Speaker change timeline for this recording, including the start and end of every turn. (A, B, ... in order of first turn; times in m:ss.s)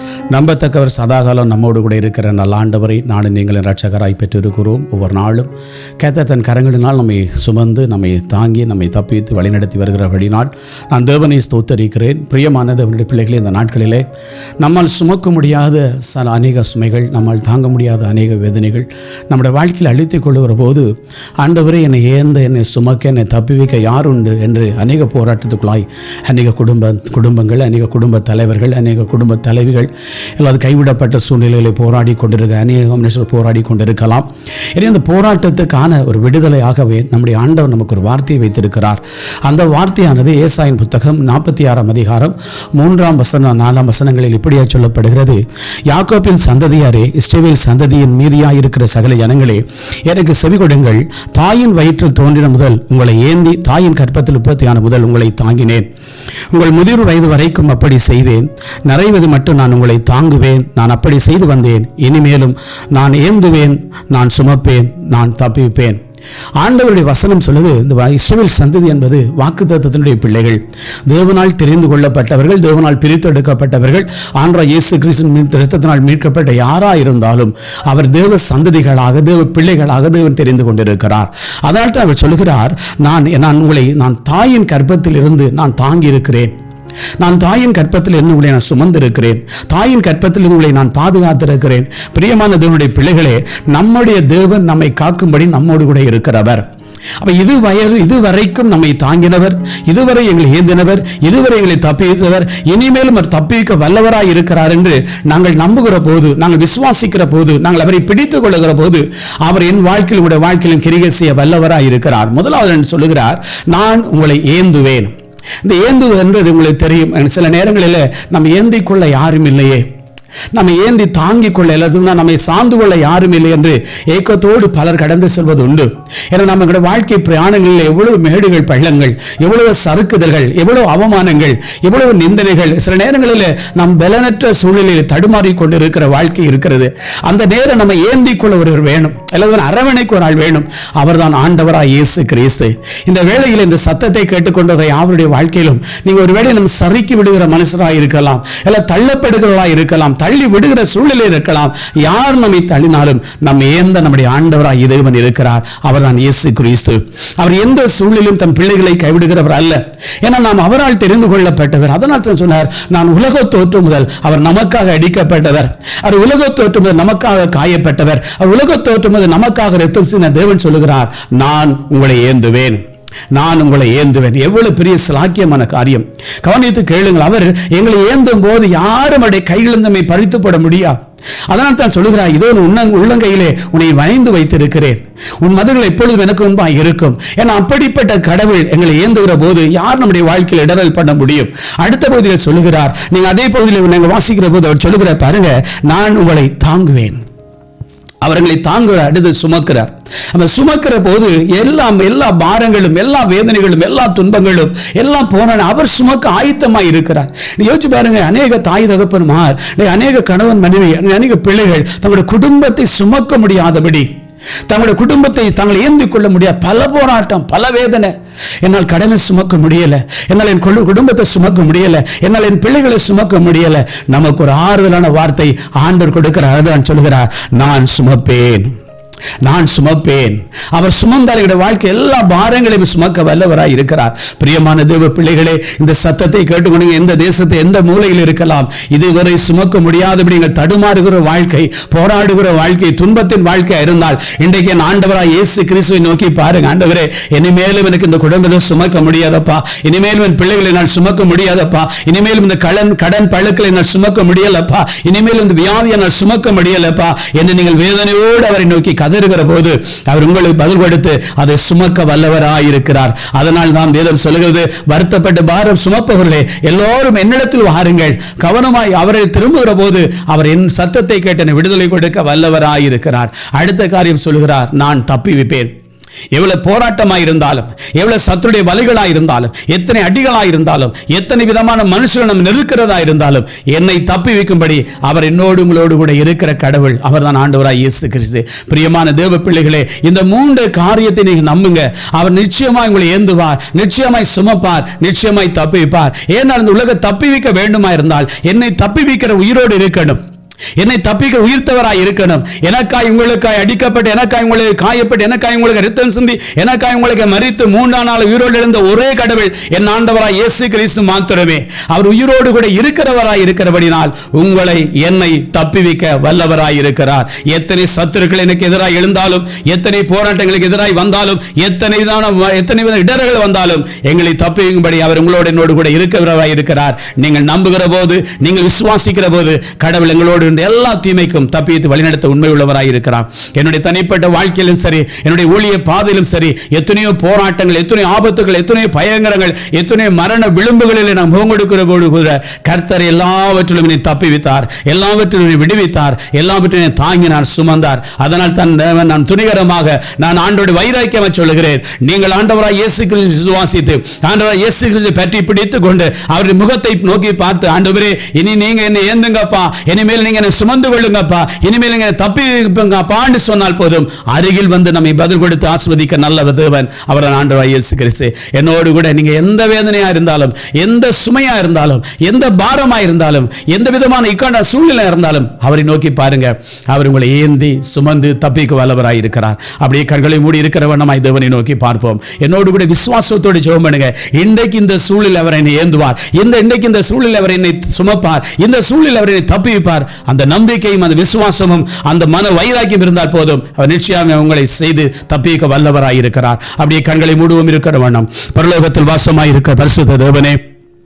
0:00.3-0:14.0 A
0:14.6-0:55.9 A
0:56.5-1:06.0 A
1:06.6-1:26.5 A
1:27.2-1:36.6 A
1:37.2-1:55.1 A
1:55.6-1:59.8 A
2:00.5-2:52.8 A
2:53.3-3:17.2 A
3:18.2-3:34.1 A
3:34.6-3:48.7 A
3:49.4-4:35.7 A
4:36.3-5:00.2 A
5:00.8-6:40.6 A